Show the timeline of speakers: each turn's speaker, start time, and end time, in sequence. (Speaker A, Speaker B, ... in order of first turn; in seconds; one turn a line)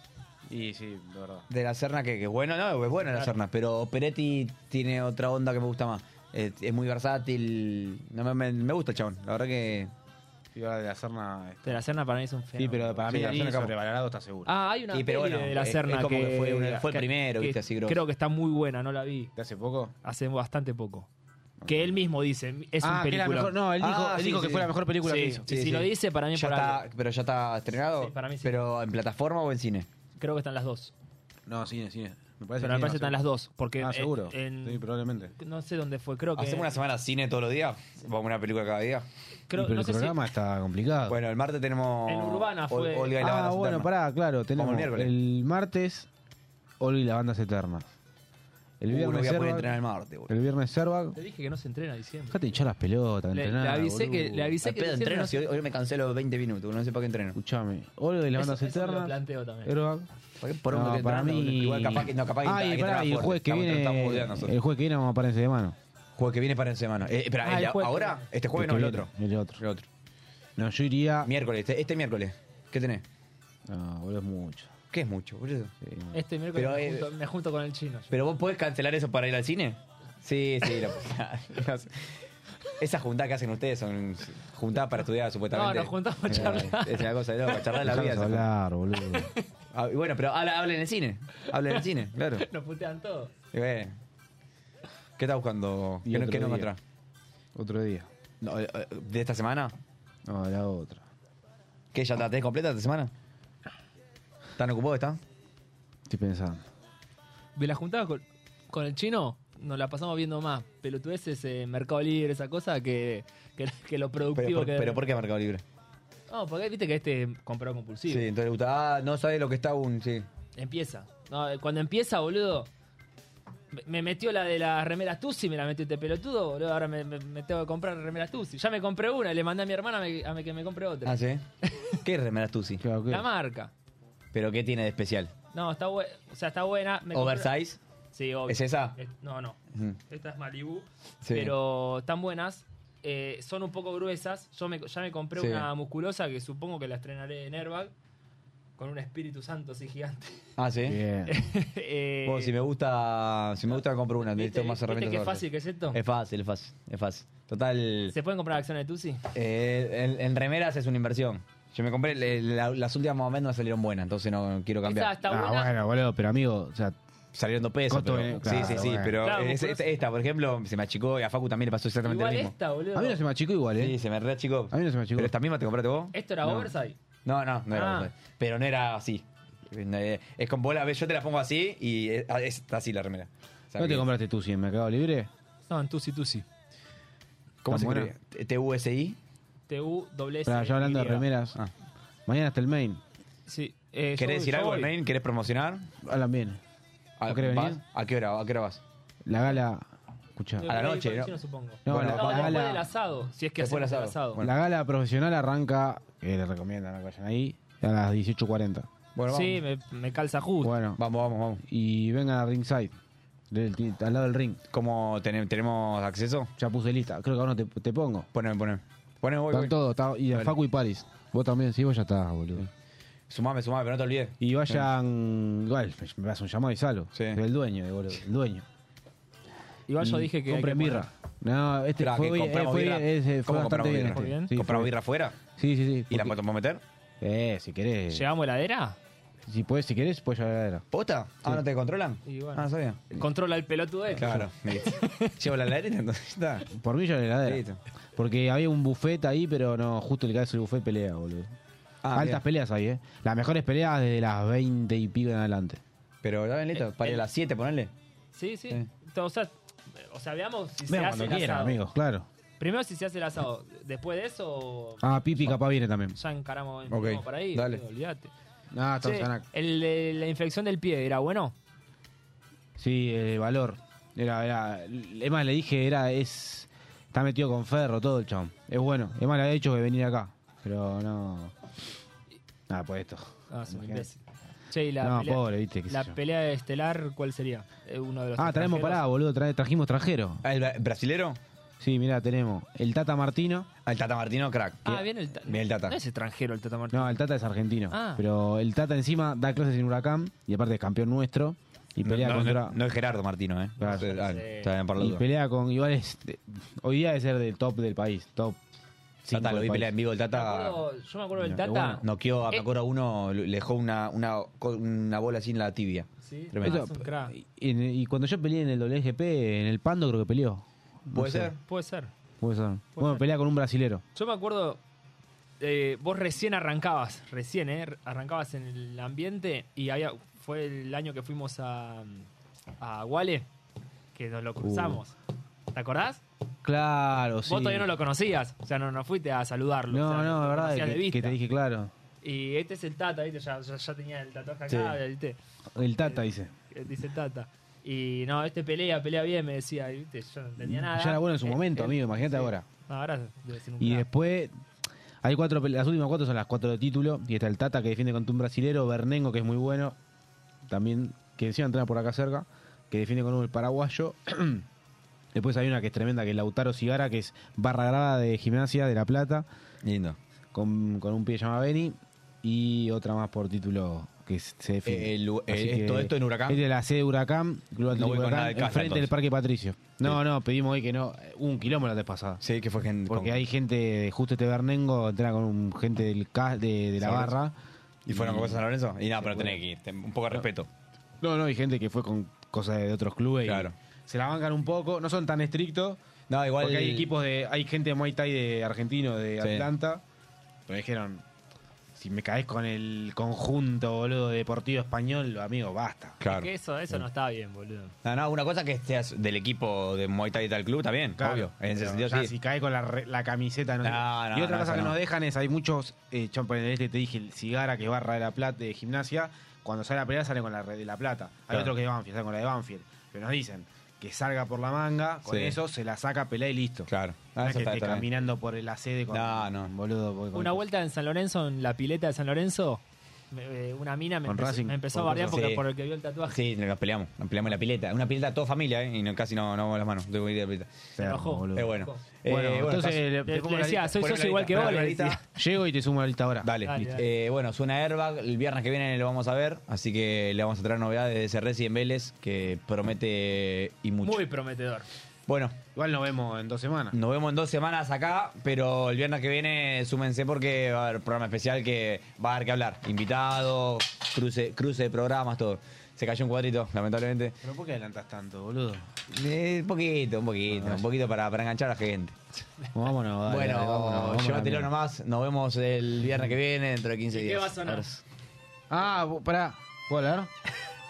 Speaker A: 0.5-1.5
Speaker B: 1.5-9.9
Speaker C: 3.0-3.3
Speaker A: 10.5-11.8
Speaker C: 11.7-13.0
Speaker A: 12.6-14.5
Speaker B: 13.1-13.7
Speaker C: 14.5-19.3
Speaker B: 14.9-18.0
Speaker A: 19.4-19.9
Speaker C: 20.0-21.1
Speaker A: 21.6-22.1
Speaker C: 21.7-23.6
Speaker A: 22.8-25.5
Speaker B: 23.8-24.7
Speaker C: 25.0-26.8
Speaker B: 25.5-29.9
Speaker C: 28.0-28.6
Speaker C: 30.2-30.9
Speaker A: 31.5-33.2
Speaker C: 32.6-34.9
Speaker A: 33.8-35.3
Speaker C: 35.4-36.7
Speaker B: 36.4-39.1
Speaker C: 39.5-40.2
Speaker A: 39.5-41.2
Speaker B: 41.1-43.9
Speaker C: 42.1-43.2
Speaker A: 43.2-46.1
Speaker B: 44.6-45.1
Speaker A: 46.8-47.9
Speaker A: 48.8-49.7
Speaker B: 48.9-50.3
Speaker A: 50.3-51.2
Speaker C: 51.1-52.6
Speaker A: 52.3-54.5
Speaker C: 53.3-55.5
Speaker B: 54.6-57.4
Speaker A: 57.4-60.1
Speaker C: 58.4-59.7
Speaker B: 60.4-64.5
Speaker A: 60.7-65.8
Speaker B: 66.2-69.9
Speaker C: 67.4-68.2
Speaker A: 68.5-69.6
Speaker A: 70.6-71.3
Speaker B: 71.2-73.0
Speaker A: 73.7-74.7
Speaker B: 74.9-75.7
Speaker A: 75.8-76.2
Speaker C: 76.1-78.2
Speaker B: 76.5-77.1
Speaker B: 78.1-82.2
Speaker B: 82.8-88.5
Speaker C: 85.5-87.1
Speaker A: 86.3-86.7
Speaker A: 87.8-89.3
Speaker C: 89.1-89.4
Speaker B: 89.7-92.5
Speaker C: 92.4-93.3
Speaker B: 93.5-93.9
Speaker B: 95.2-96.8
Speaker A: 96.0-96.7
Speaker A: 97.5-98.1
Speaker B: 98.4-99.7
Speaker A: 100.3-101.0
Speaker B: 101.9-103.1
Speaker B: 104.6-105.2
Speaker A: 106.1-106.7
Speaker C: 107.6-115.0
Speaker B: 114.3-115.6
Speaker C: 116.3-118.3
Speaker B: 118.1-120.3
Speaker C: 120.6-122.7
Speaker C: 123.7-131.9
Speaker B: 131.1-131.4
Speaker B: 132.0-132.8
Speaker A: 132.8-133.3
Speaker C: 133.1-133.7
Speaker B: 134.3-135.3
Speaker C: 135.5-137.5
Speaker B: 137.1-137.8
Speaker C: 138.1-139.6
Speaker B: 138.5-139.0
Speaker C: 140.1-147.9
Speaker B: 141.2-141.5
Speaker B: 145.4-145.7
Speaker C: 148.8-150.5
Speaker B: 150.6-151.0
Speaker A: 150.8-151.3
Speaker C: 151.3-152.5
Speaker B: 152.3-158.2
Speaker C: 154.2-156.0
Speaker C: 158.1-159.2
Speaker B: 159.3-165.1
Speaker C: 164.8-165.7
Speaker A: 165.2-167.0
Speaker B: 167.3-172.5
Speaker A: 167.9-169.2
Speaker C: 169.2-169.8
Speaker C: 172.0-173.2
Speaker A: 172.9-173.9
Speaker B: 173.8-176.7
Speaker A: 174.7-175.3
Speaker C: 176.1-177.0
Speaker B: 177.2-184.1
Speaker C: 177.7-178.1
Speaker A: 183.8-185.3
Speaker C: 185.7-186.5
Speaker B: 187.6-189.2
Speaker A: 187.7-188.1
Speaker C: 189.7-191.3
Speaker A: 190.5-191.6
Speaker A: 192.3-193.0
Speaker C: 193.5-194.9
Speaker B: 194.2-195.9
Speaker A: 196.0-196.6
Speaker B: 197.2-198.8
Speaker A: 197.3-197.8
Speaker A: 199.3-200.7
Speaker C: 200.6-204.4
Speaker B: 200.7-202.7
Speaker A: 201.9-202.9
Speaker B: 203.6-204.5
Speaker A: 204.4-208.9
Speaker B: 209.2-209.6
Speaker C: 209.3-210.8
Speaker A: 210.6-211.0
Speaker B: 211.0-211.6
Speaker A: 211.6-212.9
Speaker A: 213.5-214.6
Speaker B: 214.7-216.5
Speaker A: 216.6-218.3
Speaker B: 218.3-219.8
Speaker A: 219.5-222.7
Speaker B: 223.3-224.9
Speaker A: 224.4-228.7
Speaker B: 227.1-227.4
Speaker C: 229.9-231.1
Speaker A: 230.0-234.9
Speaker B: 232.0-235.4
Speaker C: 234.0-234.5
Speaker A: 235.5-236.4
Speaker B: 236.1-236.8
Speaker A: 237.2-238.3
Speaker C: 238.1-239.0
Speaker A: 239.5-240.8
Speaker B: 240.9-243.2
Speaker C: 242.3-245.3
Speaker B: 244.2-246.7
Speaker A: 244.2-244.5
Speaker A: 246.7-247.6
Speaker B: 247.5-247.8
Speaker A: 248.2-251.6
Speaker B: 252.0-252.4
Speaker A: 252.1-255.8
Speaker B: 256.2-257.9
Speaker C: 256.8-257.2
Speaker C: 258.3-261.8
Speaker A: 260.9-262.3
Speaker C: 262.6-265.6
Speaker A: 265.0-266.2
Speaker C: 266.1-268.3
Speaker B: 266.9-267.8
Speaker A: 268.7-269.4
Speaker C: 269.0-271.6
Speaker A: 272.8-281.6
Speaker A: 282.7-284.1
Speaker C: 283.5-289.0
Speaker A: 285.0-286.2
Speaker A: 288.4-290.4
Speaker B: 290.4-291.4
Speaker A: 291.8-293.7
Speaker B: 293.9-296.0
Speaker C: 294.9-297.2
Speaker A: 296.9-302.8
Speaker C: 297.9-298.2
Speaker B: 302.0-305.2
Speaker C: 303.8-304.7
Speaker A: 303.8-304.1
Speaker A: 305.0-308.6
Speaker A: 309.2-309.9
Speaker B: 309.3-310.8
Speaker C: 310.3-312.7
Speaker A: 311.4-312.0
Speaker B: 312.0-316.8
Speaker C: 316.2-317.3
Speaker A: 316.6-321.5
Speaker B: 321.1-321.6
Speaker C: 321.6-322.1
Speaker A: 322.4-324.0
Speaker C: 323.0-323.3
Speaker C: 324.1-324.8
Speaker C: 325.6-332.3
Speaker C: 332.8-333.5
Speaker C: 334.1-335.1
Speaker A: 334.6-335.0
Speaker C: 335.7-336.2
Speaker A: 336.6-337.9
Speaker C: 337.5-341.4
Speaker A: 339.9-341.9
Speaker C: 342.2-345.4
Speaker B: 344.7-345.0
Speaker A: 345.8-346.5
Speaker C: 346.0-354.1
Speaker A: 350.6-352.7
Speaker A: 353.8-354.5
Speaker A: 355.2-360.0
Speaker A: 360.7-364.7
Speaker A: 365.3-369.5
Speaker B: 369.8-370.2
Speaker A: 370.5-382.4
Speaker B: 374.9-376.6
Speaker B: 377.9-379.1
Speaker B: 382.4-383.4
Speaker A: 383.1-387.6
Speaker B: 387.0-387.4
Speaker A: 388.1-388.6
Speaker B: 388.1-390.7
Speaker A: 389.2-389.6
Speaker A: 391.2-396.0
Speaker B: 393.5-393.8
Speaker B: 396.3-397.1
Speaker A: 396.6-400.0
Speaker B: 399.4-399.7
Speaker A: 400.7-401.2
Speaker A: 401.9-406.2
Speaker B: 406.2-406.5
Speaker C: 406.2-407.9
Speaker B: 408.0-412.3
Speaker A: 411.2-430.7
Speaker B: 413.8-415.0
Speaker B: 425.3-425.6
Speaker B: 426.9-428.1
Speaker B: 429.1-429.7
Speaker C: 430.3-436.4
Speaker A: 434.2-435.5
Speaker B: 435.1-435.6
Speaker B: 436.3-440.7
Speaker C: 441.0-442.0
Speaker A: 441.0-444.0
Speaker B: 441.5-443.0
Speaker C: 443.3-445.2
Speaker B: 444.0-445.2
Speaker A: 444.6-446.5
Speaker B: 446.4-454.2
Speaker C: 446.6-447.1
Speaker C: 454.0-454.9
Speaker B: 455.3-455.6
Speaker A: 455.8-456.9
Speaker B: 456.9-467.4
Speaker A: 467.4-468.9
Speaker B: 469.1-472.2
Speaker A: 470.5-470.8
Speaker A: 472.8-474.7
Speaker B: 473.3-478.0
Speaker C: 477.1-477.9
Speaker A: 478.7-480.3